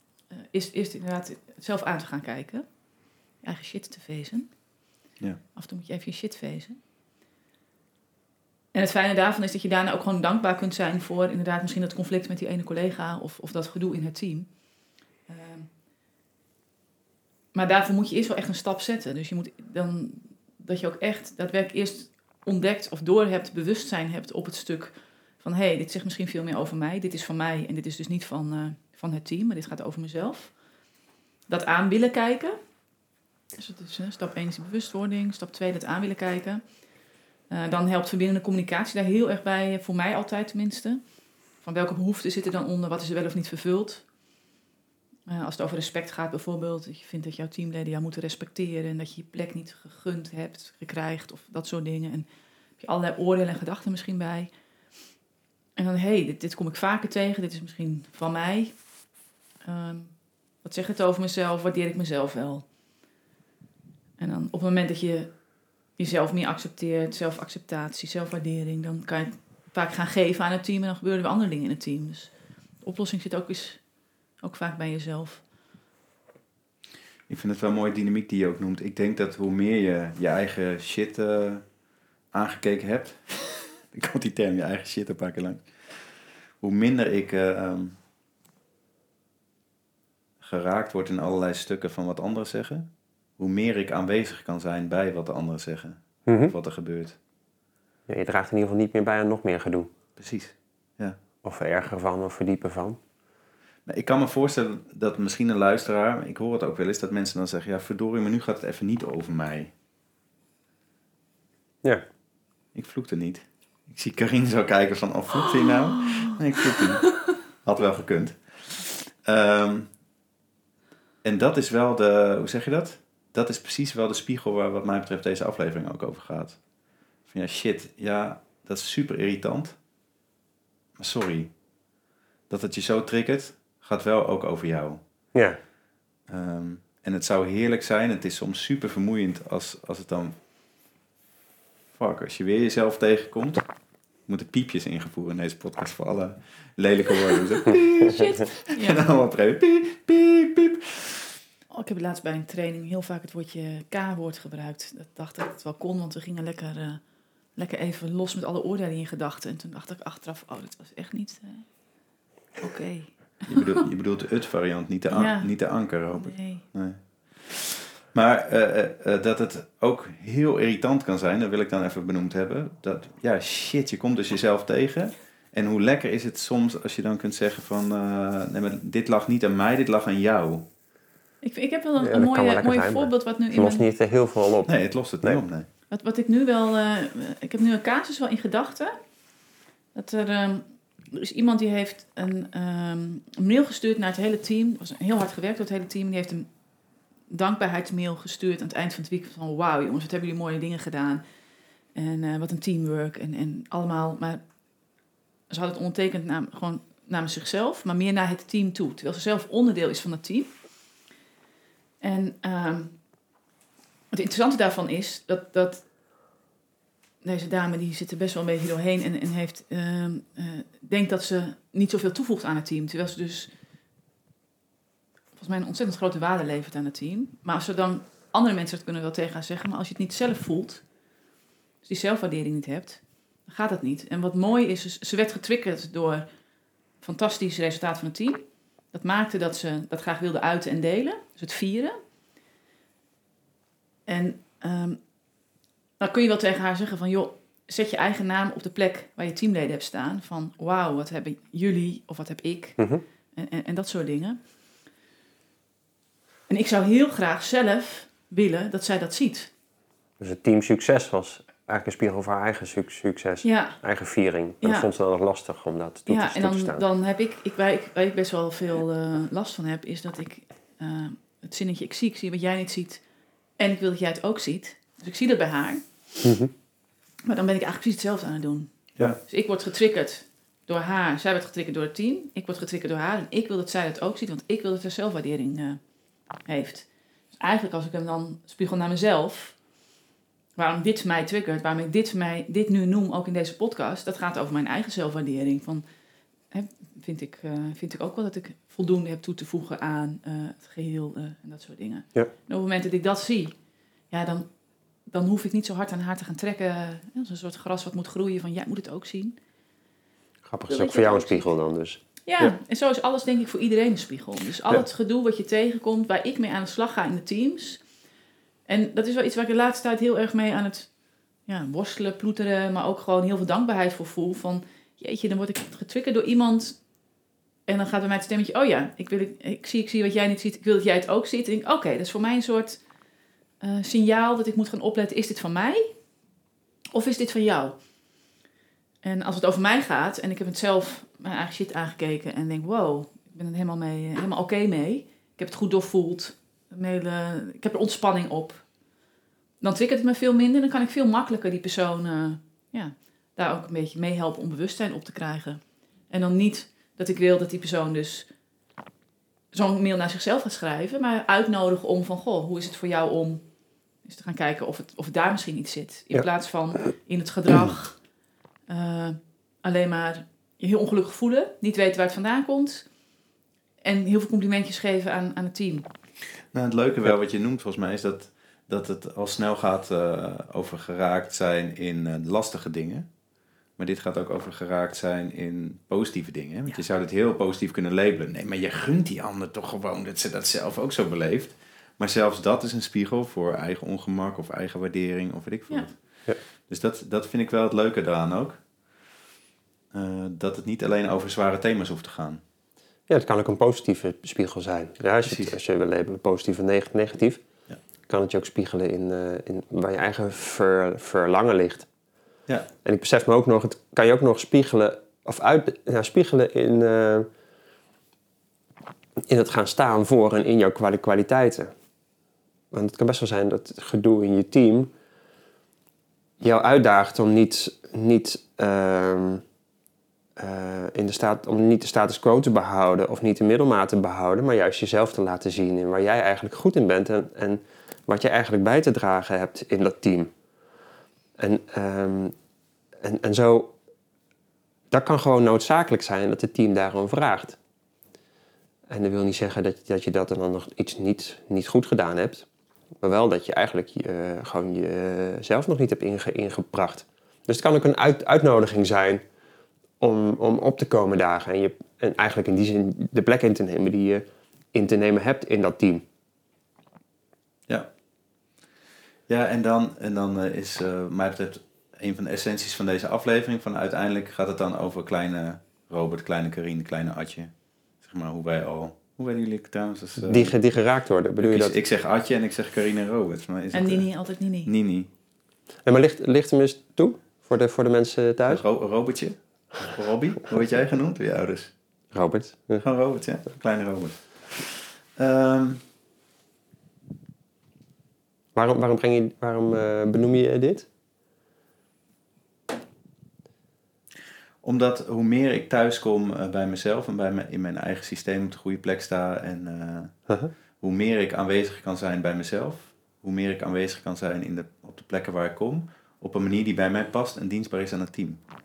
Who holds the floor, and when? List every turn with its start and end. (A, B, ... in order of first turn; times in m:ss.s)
0:00.3-0:02.7 A
0:03.4-0:04.5 A
0:05.6-0:06.8 A
0:08.7-0:14.5 A
0:15.3-0:15.7 A
0:17.5-0:30.6 A
0:31.5-0:32.6 A
0:33.6-0:36.6 A
0:37.5-0:41.0 A
0:41.6-0:44.0 A
0:45.3-0:52.3 A
0:52.8-0:54.5 A
0:55.8-0:58.8 A
0:59.6-1:02.6 A
1:04.2-1:05.4 A
1:06.0-1:13.8 A
1:14.4-1:15.4 A
1:17.3-1:21.6 B
1:22.3-1:28.0 B
1:30.4-1:37.2 B
1:36.3-1:36.5 C
1:38.1-1:39.9 C
1:40.2-1:41.2 B
1:41.4-1:43.0 C
1:43.9-1:49.7 B
1:52.8-1:59.9 B
2:01.2-2:06.6 B
2:07.3-2:09.8 B
2:11.0-2:11.5 B
2:12.5-2:15.0 B
2:15.3-2:15.6 C
2:16.3-2:20.4 B
2:22.0-2:23.6 B
2:24.3-2:31.4 B
2:27.8-2:29.0 A
2:31.7-2:37.0 A
2:37.6-2:41.7 A
2:42.6-2:43.7 A
2:43.5-3:00.7 B
2:45.1-2:46.6 A
3:01.4-3:03.8 A
3:02.0-3:05.4 C
3:04.7-3:05.7 B
3:05.9-3:09.0 A
3:10.0-3:16.5 A
3:17.3-3:21.2 A
3:22.0-3:24.4 A
3:25.5-3:30.5 A
3:32.0-3:33.0 A
3:34.1-3:35.8 A
3:37.2-3:43.5 A
3:45.4-3:50.8 A
3:51.8-3:56.2 A
3:57.0-4:02.0 A
4:04.1-4:05.0 A
4:06.0-4:12.8 A
4:13.4-4:14.4 A
4:16.5-4:19.5 A
4:20.2-4:26.8 C
4:23.4-4:23.8 A
4:24.6-4:24.9 A
4:26.1-4:33.0 A
4:33.6-4:35.9 A
4:36.2-4:36.5 C
4:37.2-4:45.8 A
4:46.4-4:49.6 A
4:50.6-4:55.8 A
4:56.5-5:03.5 A
5:04.1-5:04.5 A
5:05.1-5:09.4 A
5:10.5-5:12.6 C
5:10.7-5:11.5 A
5:12.3-5:17.8 A
5:18.7-5:20.9 A
5:21.5-5:26.8 A
5:27.7-5:32.8 A
5:33.6-5:35.9 A
5:37.0-5:37.8 A
5:39.0-5:48.6 A
5:49.6-5:58.3 A
5:59.5-6:03.4 A
6:04.0-6:08.0 A
6:08.7-6:12.9 A
6:13.8-6:15.9 A
6:16.5-6:23.1 B
6:23.8-6:38.6 B
6:39.9-6:42.4 B
6:43.1-6:47.4 C
6:45.2-6:45.6 B
6:48.1-6:51.9 C
6:52.8-6:57.3 C
6:59.3-7:01.7 C
7:02.7-7:04.9 C
7:06.4-7:09.4 C
7:10.4-7:20.3 C
7:21.4-7:22.4 C
7:23.0-7:23.8 C
7:24.9-7:27.6 C
7:28.9-7:32.5 C
7:33.0-7:39.2 C
7:40.0-7:46.1 C
7:49.3-8:00.6 B
8:00.3-8:01.8 C
8:01.4-8:04.1 B
8:03.7-8:04.7 A
8:04.6-8:05.1 B
8:05.8-8:08.6 C
8:08.5-8:11.7 B
8:12.1-8:12.8 C
8:12.8-8:15.8 B
8:18.6-8:20.9 C
8:24.6-8:30.2 B
8:30.8-8:38.4 B